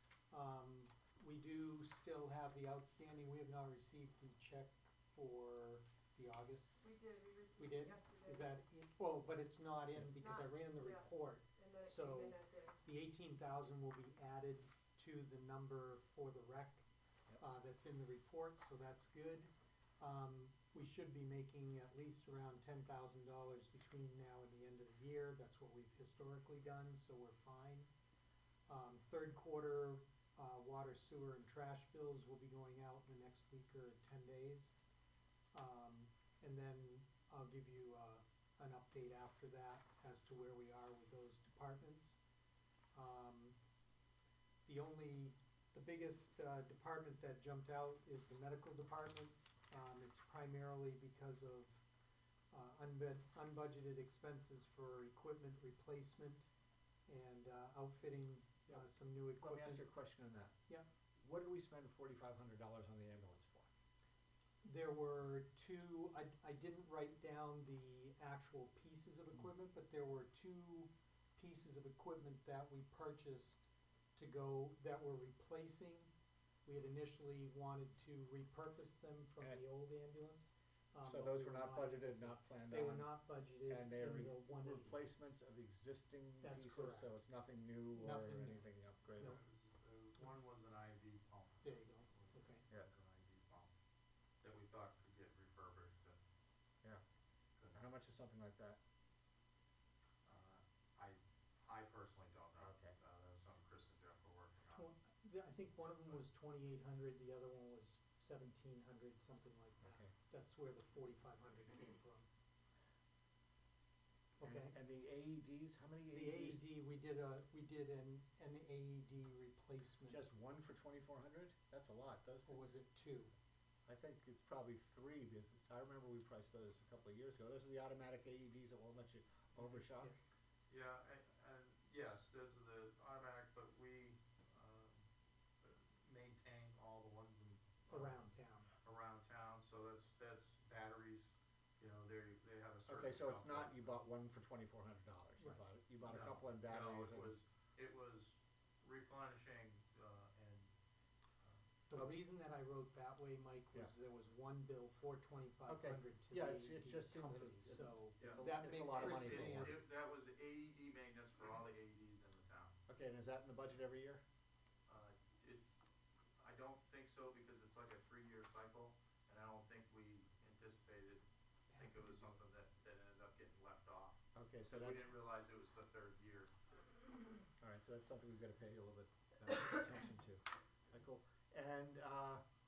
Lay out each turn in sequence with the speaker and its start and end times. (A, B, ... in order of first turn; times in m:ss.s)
0:00.3-0:06.8 A
0:06.8-0:08.6 B
0:07.6-0:16.8 A
0:10.0-0:12.8 B
0:17.4-0:27.9 A
0:28.7-0:34.8 A
0:35.5-0:42.2 A
0:42.9-0:43.6 A
0:44.6-0:51.8 A
0:52.5-0:56.5 A
0:57.1-0:59.8 A
0:59.4-1:00.5 C
1:01.2-1:03.7 C
1:04.6-1:13.6 A
1:14.1-1:16.1 A
1:16.6-1:25.0 A
1:21.0-1:29.4 C
1:26.4-1:27.1 A
1:27.9-1:29.4 A
1:29.2-1:33.7 D
1:31.6-1:32.6 A
1:34.4-1:36.2 D
1:37.7-1:38.8 C
1:40.2-1:44.9 D
1:42.6-1:43.0 C
1:44.7-1:52.3 A
1:49.8-1:50.1 C
1:54.4-1:54.8 A
1:54.4-1:56.6 C
1:56.1-2:00.2 A
2:00.1-2:02.7 C
2:02.4-2:03.3 A
2:03.8-2:10.2 C
2:10.7-2:15.0 D
2:15.6-2:18.2 D
2:17.9-2:18.7 A
2:18.8-2:23.9 D
2:22.9-2:27.4 C
2:26.0-2:30.7 D
2:31.9-2:39.8 A
2:35.7-2:39.8 C
2:38.2-2:42.7 D
2:42.9-2:44.2 C
2:44.9-2:45.8 D
2:46.4-2:56.5 D
2:51.7-2:52.3 A
2:54.3-2:55.1 C
2:57.6-3:02.4 C